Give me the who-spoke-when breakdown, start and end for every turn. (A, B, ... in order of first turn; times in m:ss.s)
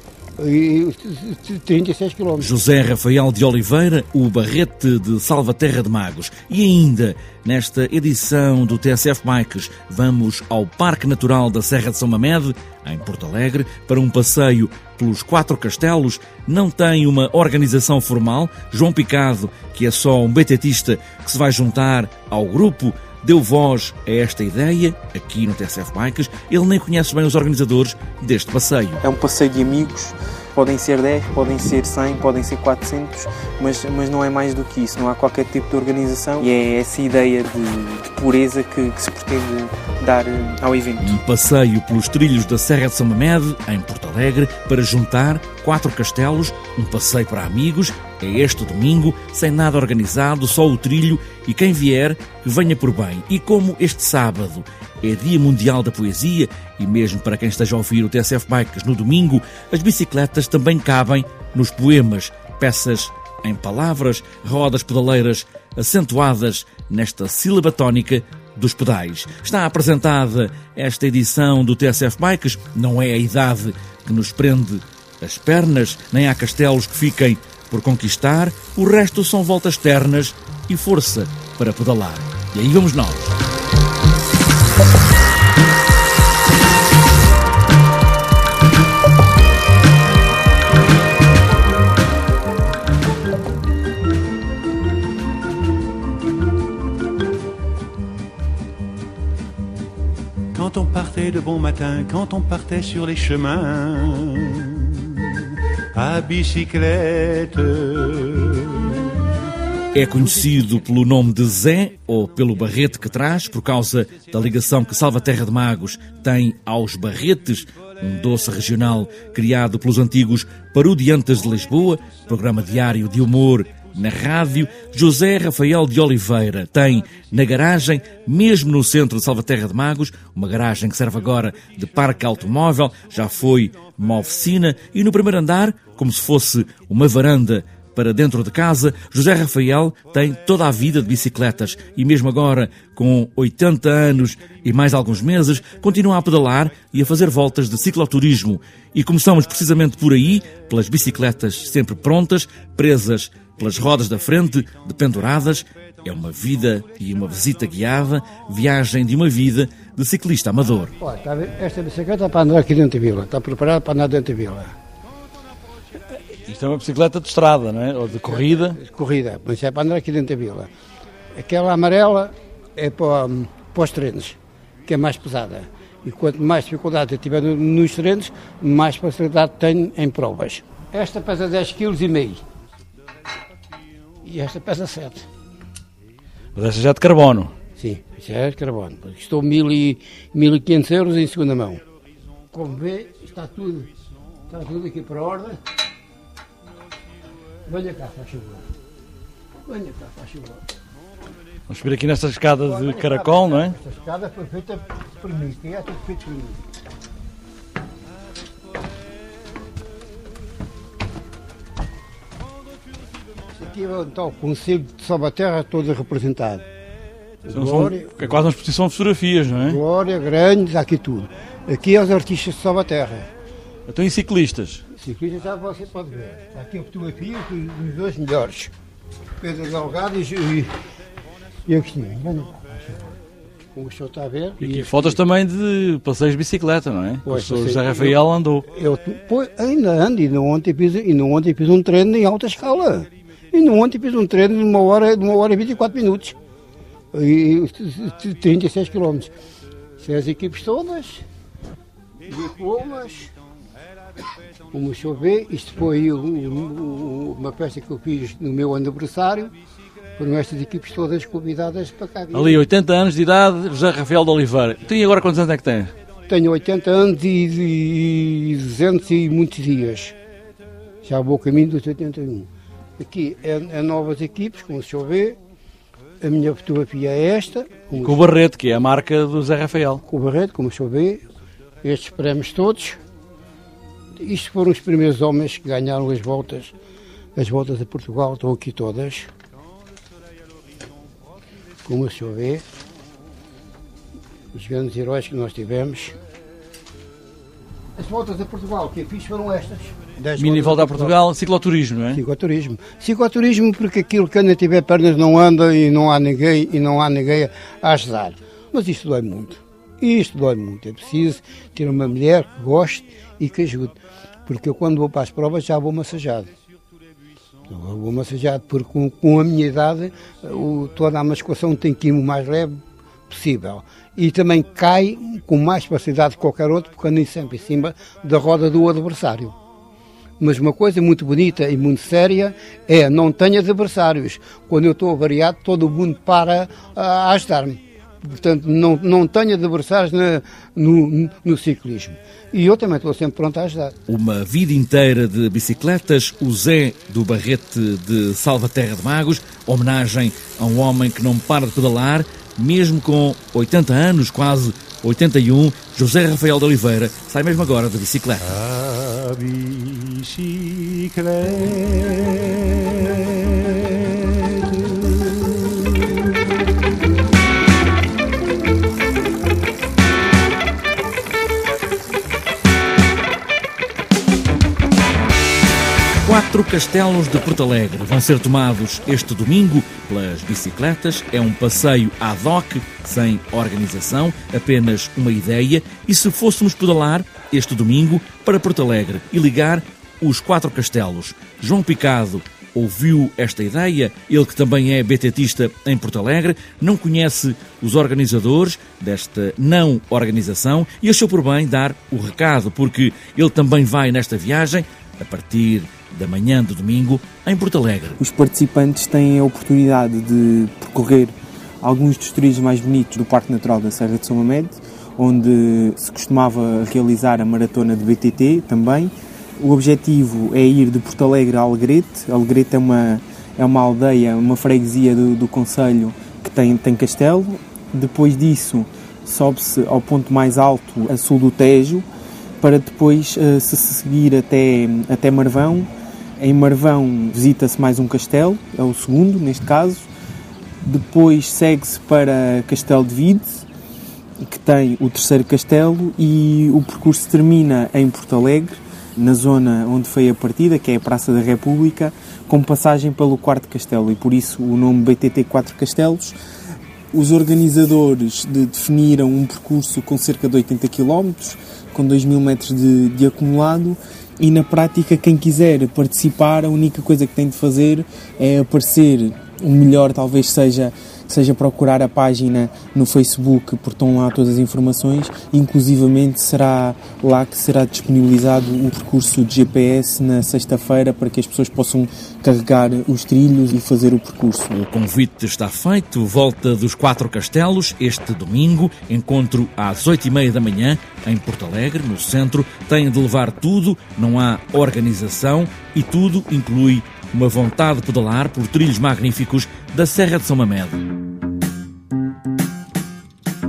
0:00.4-0:02.5 A
0:02.4-0:29.0 B
0:29.0-0:41.2 C
0:41.0-1:23.4 B
1:40.6-1:45.2 D
1:45.9-1:48.9 D
1:49.9-2:41.0 B
2:41.0-2:44.7 A
2:46.5-2:48.8 E
2:48.3-2:50.7 A
2:51.4-3:02.4 A
3:04.2-3:05.3 A
3:06.6-3:07.5 E
3:07.8-3:11.8 A
3:12.5-3:13.9 A
3:14.5-3:15.6 A
3:17.7-3:18.7 A
3:19.7-3:20.6 A
3:21.7-3:23.8 E
3:22.7-3:26.6 A
3:33.6-3:36.7 A
3:37.5-3:38.3 A
3:37.5-3:39.8 E
3:39.7-3:43.3 A
3:43.9-3:44.8 E
3:45.0-3:48.7 A
3:49.4-3:50.7 A
3:51.7-3:53.2 A
3:53.7-3:55.2 A
3:54.6-3:58.7 E
3:57.3-3:58.2 A
3:58.7-4:06.4 A
4:07.1-4:09.3 A
4:10.0-4:11.2 A
4:12.3-4:13.3 A
4:14.7-4:19.5 A
4:20.2-4:22.6 A
4:22.3-4:25.9 E
4:26.3-4:30.2 A
4:31.0-4:35.4 A
4:36.2-4:38.2 A
4:38.0-4:40.0 E
4:40.1-4:41.2 A
4:41.8-4:43.0 A
4:44.2-4:46.7 A
4:47.4-4:49.3 A
4:51.8-4:52.6 A
4:54.5-4:56.2 A
4:58.0-5:01.2 A
5:00.4-5:02.2 E
5:02.2-5:16.5 A
5:17.7-5:29.6 A
5:30.4-5:44.0 A
5:44.1-5:58.6 B
5:58.5-6:05.8 D
6:16.2-6:48.2 B
6:48.2-7:12.1 C
7:12.6-7:15.9 C
7:16.4-7:20.1 C
7:20.8-7:23.6 C
7:24.4-7:36.4 C
7:37.1-8:04.7 C
8:04.7-8:21.0 B